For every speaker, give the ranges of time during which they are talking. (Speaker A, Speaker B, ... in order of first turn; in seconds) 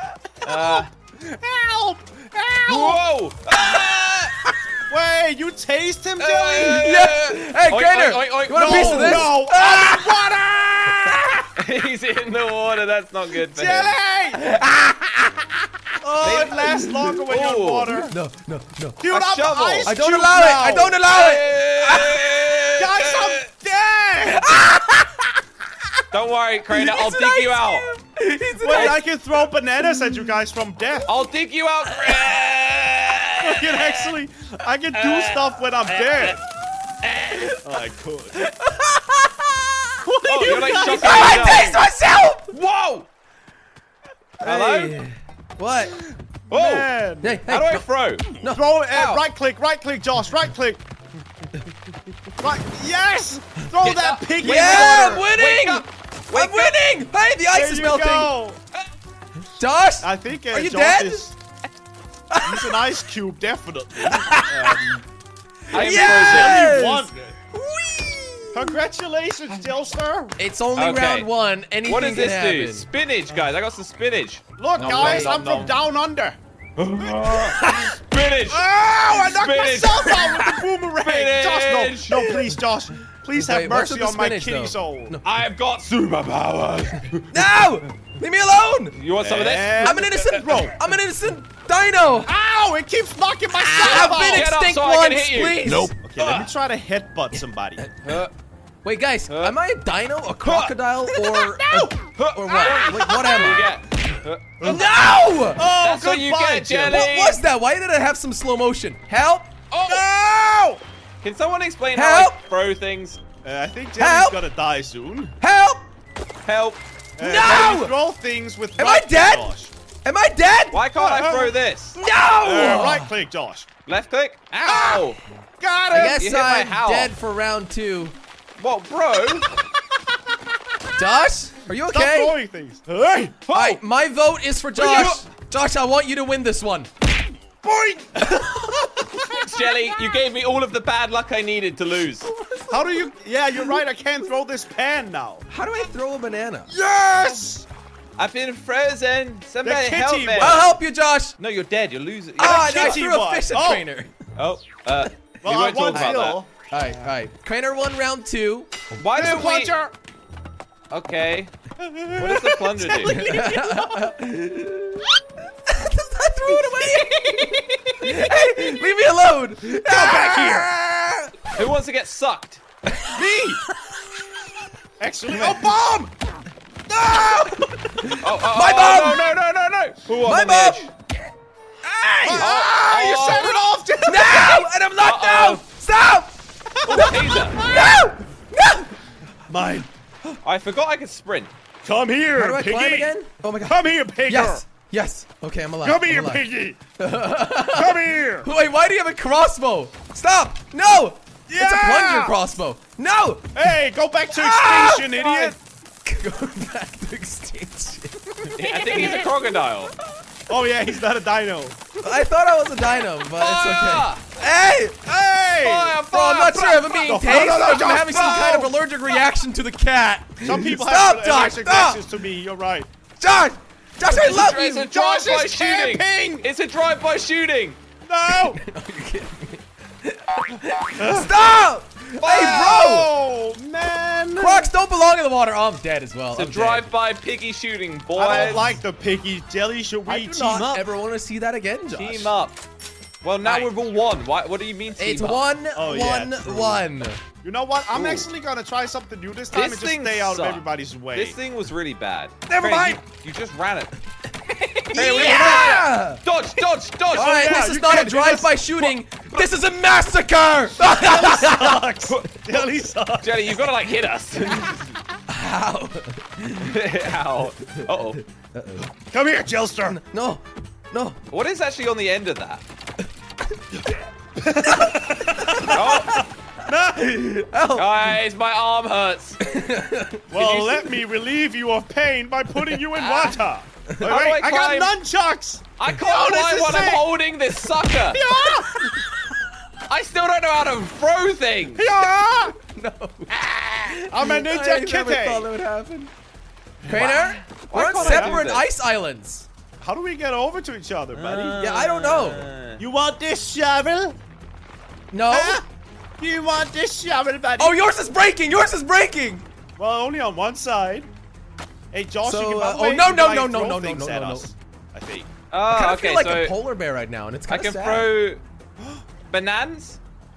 Speaker A: 0.4-3.0, 4.9-6.9, 8.5-11.4, 13.5-14.4, 16.0-18.1, 19.0-21.0, 22.8-24.7, 28.6-31.1, 33.4-36.4, 37.6-38.5, 40.0-41.8, 45.8-47.4, 48.4-50.8, 52.4-55.3, 57.5-58.6, 60.0-61.4, 62.4-64.8, 65.7-67.4, 68.5-70.4, 74.6-76.4, 77.1-77.8, 78.5-85.2, 89.2-90.8, 92.2-94.5, 95.7-97.8, 101.1-103.5, 104.6-107.1, 109.9-110.8, 113.4-115.3, 117.2-119.7, 120.9-121.6, 122.4-123.7, 124.7-126.2, 131.9-133.4, 134.8-135.2, 137.6-139.7, 142.7-145.5, 146.7-147.7, 149.6-150.7, 152.4-153.9, 155.4-156.5, 159.1-159.9, 161.8-164.1, 166.9-167.8, 169.8-170.7, 173.1-173.6, 175.0-176.1, 176.9-178.1, 182.2-184.7, 186.8-188.0, 189.5-189.9, 191.8-194.6, 195.8-196.8, 197.7-198.5, 201.5-202.4, 203.5-205.6, 210.5-211.9, 215.1-216.0, 217.1-218.7, 220.4-222.9, 224.7-226.5, 228.1-228.6, 231.0-231.5, 232.4-234.7, 238.2-240.9, 245.8-246.9, 247.4-251.4, 252.5-253.0, 254.9-255.9, 257.1-258.9, 260.8-263.5, 268.8-270.0, 274.4-277.5, 280.3-287.2, 288.1-289.0, 291.8-292.6, 293.4-295.5, 296.8-297.1, 297.8-298.4, 299.8-301.6, 302.8-304.2, 305.3-305.6, 306.2-307.8, 309.8-311.1, 311.9-315.3
Speaker B: 0.4-0.9, 2.7-4.4, 6.2-9.4, 11.6-13.9, 16.2-18.0, 19.1-20.0, 21.0-23.4, 26.1-27.9, 28.7-29.0, 31.1-34.1, 34.9-36.4, 40.3-41.8, 42.5-43.1, 44.4-45.0, 46.5-48.3, 48.9-49.2, 53.8-56.8, 64.5-64.9, 65.7-66.7, 70.8-71.3, 71.8-75.8, 76.8-80.4, 81.0-82.2, 85.2-87.5, 88.9-90.3, 93.7-96.5, 98.0-98.3, 99.3-99.6, 100.4-100.8, 102.2-104.9, 105.8-107.4, 109.7-110.1, 111.2-113.2, 116.5-116.8, 120.7-122.0, 123.8-125.2, 125.9-127.1, 128.6-129.5, 133.5-133.8, 134.8-135.2, 139.4-142.3, 148.2-150.8, 151.4-153.1, 154.4-156.4, 158.9-159.8, 160.9-161.5, 162.2-163.2, 171.5-172.6, 178.2-180.9, 182.3-183.6, 185.0-185.6, 186.8-187.6, 190.4-191.5, 208.5-209.9, 213.3-214.2, 215.6-218.6, 224.0-227.8, 232.2-233.0, 236.3-238.8, 241.9-242.6, 243.2-245.5, 247.9-248.3, 249.5-253.9, 254.8-257.6, 262.1-262.6, 263.2-264.9, 266.6-268.2, 271.3-272.6, 275.7-276.2, 277.8-279.4, 280.3-280.9, 282.9-283.4, 284.0-285.0, 285.8-288.2, 289.9-291.9, 296.9-298.7, 301.1-302.8, 315.5-316.6, 317.5-318.4, 319.3-320.0
Speaker C: 6.6-10.2, 14.4-15.4, 18.1-19.0, 19.8-22.4, 24.5-25.2, 26.7-29.1, 37.2-37.5, 38.4-42.5, 44.4-46.0, 47.2-48.7, 54.4-58.3, 59.6-61.3, 62.3-62.8, 64.1-65.0, 65.7-68.8, 70.4-72.9, 74.8-75.4, 83.4-85.2, 87.3-89.0, 89.8-92.3, 93.7-95.9, 98.8-103.8, 104.6-105.7, 106.9-109.5, 111.9-112.4, 114.0-114.4, 115.4-115.8, 117.2-118.0, 118.8-119.5, 120.0-120.8, 122.0-123.1, 125.9-128.2, 131.0-132.4, 133.5-136.9, 142.3-142.9, 145.5-146.7, 150.4-151.4, 152.4-154.1, 156.7-158.7, 163.0-165.2, 165.7-167.2, 168.0-171.3, 176.9-179.3, 180.2-180.9, 181.9-182.6, 184.0-186.3, 186.9-188.9, 192.3-196.4, 197.0-203.7, 204.3-209.2, 212.0-215.0, 216.1-222.0, 223.2-224.9, 228.3-233.1, 234.4-236.9, 240.1-242.3, 243.4-243.7, 245.0-247.2, 254.9-256.2, 257.1-261.9, 265.3-266.8, 268.5-268.9, 269.9-271.2, 274.7-276.3, 277.2-278.2, 279.4-280.2, 292.6-296.1, 296.9-299.5, 301.6-302.5, 305.1-305.6, 307.6-309.4, 312.2-314.5, 315.7-318.1